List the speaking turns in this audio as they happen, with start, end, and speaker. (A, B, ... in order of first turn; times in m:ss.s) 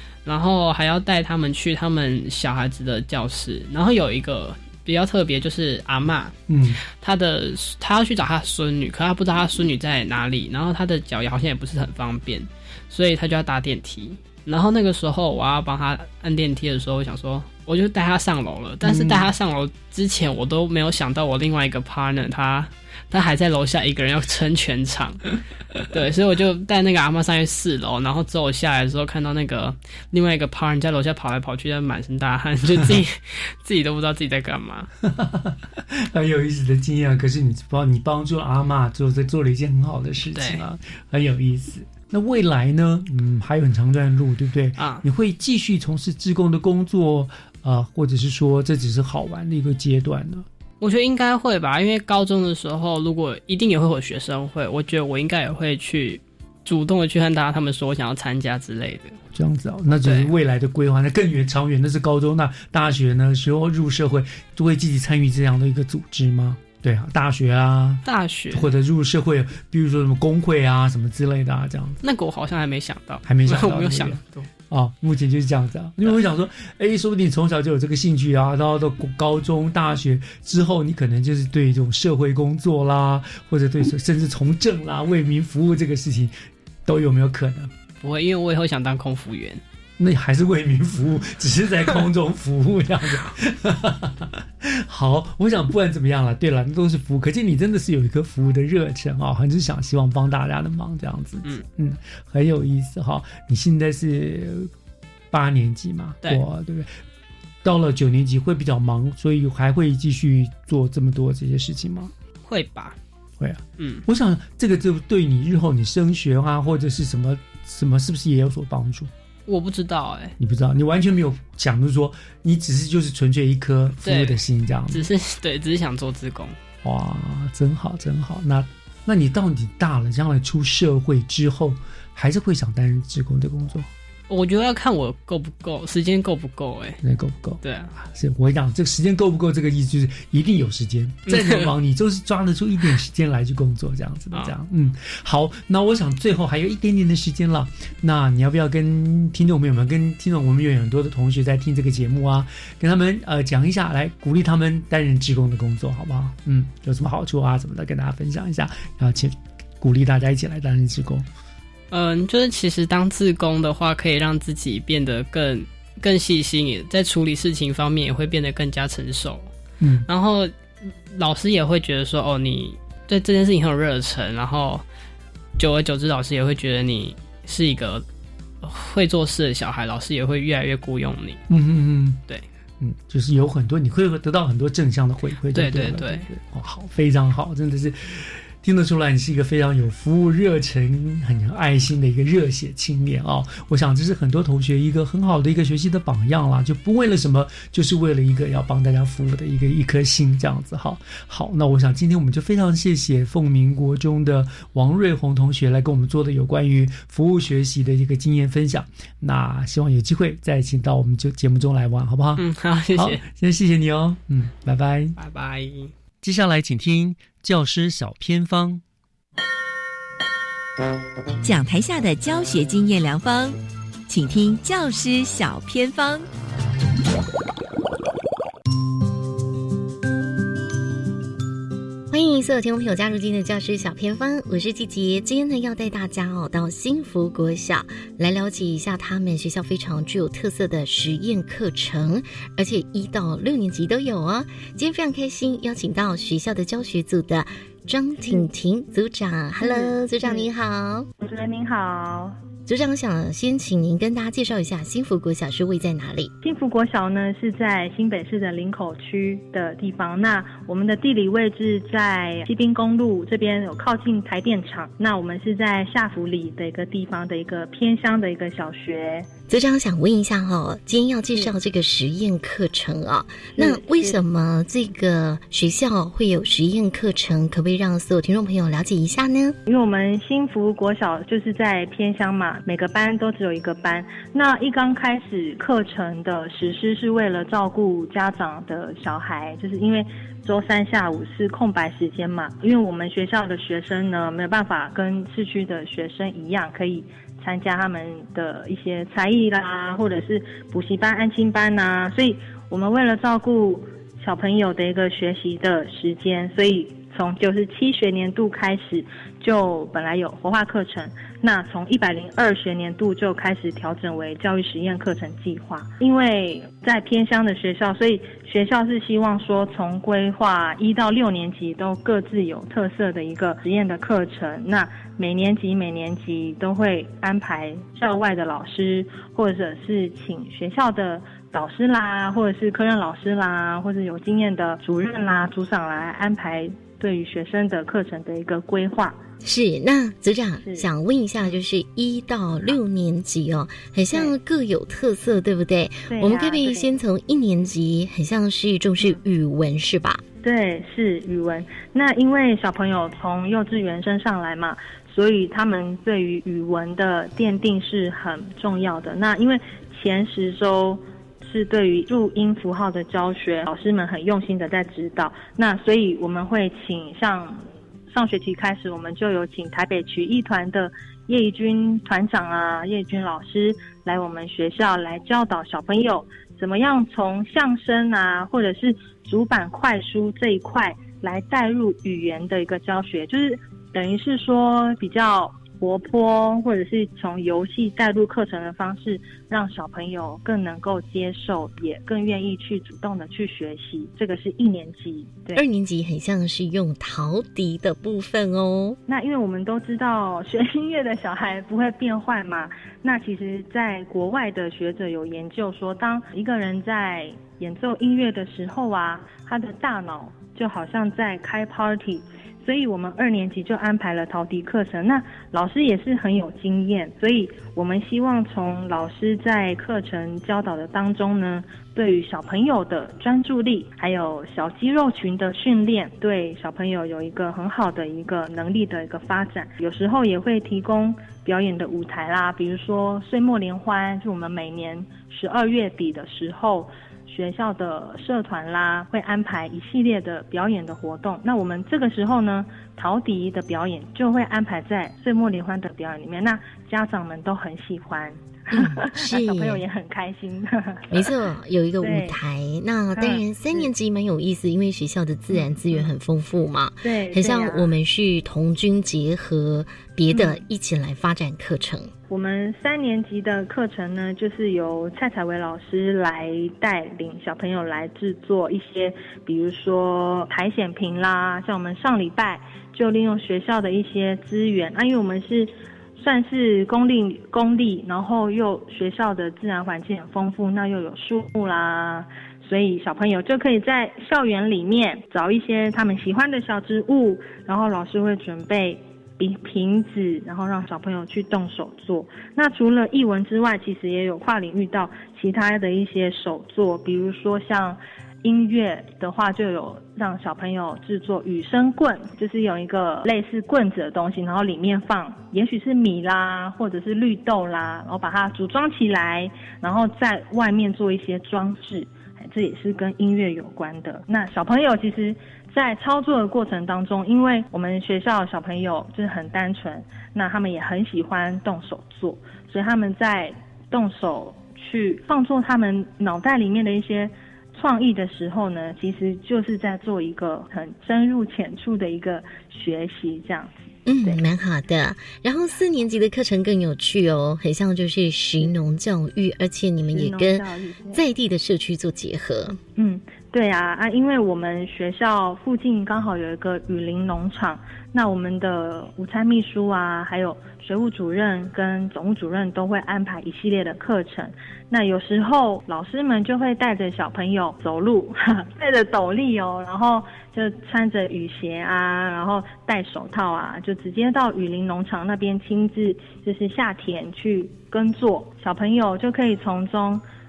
0:00.3-0:06.3 A
0:06.5-0:06.8 B
0:06.9-0:25.2 A
0:18.8-0:19.3 B
0:25.9-0:34.9 A
0:35.0-0:50.5 B
0:40.3-0:40.6 A
0:44.8-0:45.0 A
0:50.8-0:59.2 A
0:59.3-1:12.0 B
1:00.0-1:00.3 A
1:08.0-1:08.7 A
1:12.0-1:14.5 A
1:13.3-1:27.7 B
1:28.0-1:29.6 A
1:30.0-1:44.7 B
1:45.3-1:46.9 B
1:47.6-1:52.1 B
1:52.5-1:53.0 A
1:53.4-1:59.1 B
1:53.8-1:54.0 A
1:59.5-2:00.4 A
2:00.4-2:05.1 B
2:04.0-2:04.4 A
2:04.9-2:06.6 A
2:06.8-2:13.9 B
2:14.3-2:17.0 A
2:17.0-2:41.3 B
2:17.6-2:18.0 A
2:21.3-2:21.7 A
2:41.9-2:49.5 A
2:49.8-2:50.1 B
2:50.1-2:54.8 A
2:55.6-2:58.0 A
2:58.6-3:01.4 A
3:01.5-3:02.2 B
3:02.8-3:32.4 B
3:05.5-3:06.3 A
3:32.4-3:33.2 A
3:33.0-3:35.2 B
3:35.2-3:35.9 A
3:36.2-3:38.8 B
3:41.4-3:46.3 C
3:52.1-4:11.1 D
4:09.6-4:10.5 E
4:11.2-4:12.4 E
4:12.7-4:16.3 D
4:16.4-4:29.3 E
4:29.5-4:39.6 D
4:33.6-4:34.2 E
4:39.7-5:39.2 E
5:39.4-5:50.2 D
5:40.6-5:40.9 E
5:46.1-5:46.9 E
5:50.4-6:35.6 E
6:35.6-6:39.0 D
6:39.1-7:31.3 E
7:28.7-7:29.8 D
7:31.1-7:42.1 D
7:32.0-7:32.4 E
7:33.1-7:33.9 E
7:35.5-7:36.1 E
7:37.0-7:37.9 E
7:40.3-7:40.6 E
7:42.3-8:54.4 E
8:54.1-9:02.8 D
9:00.1-9:01.2 E
9:03.0-9:30.2 E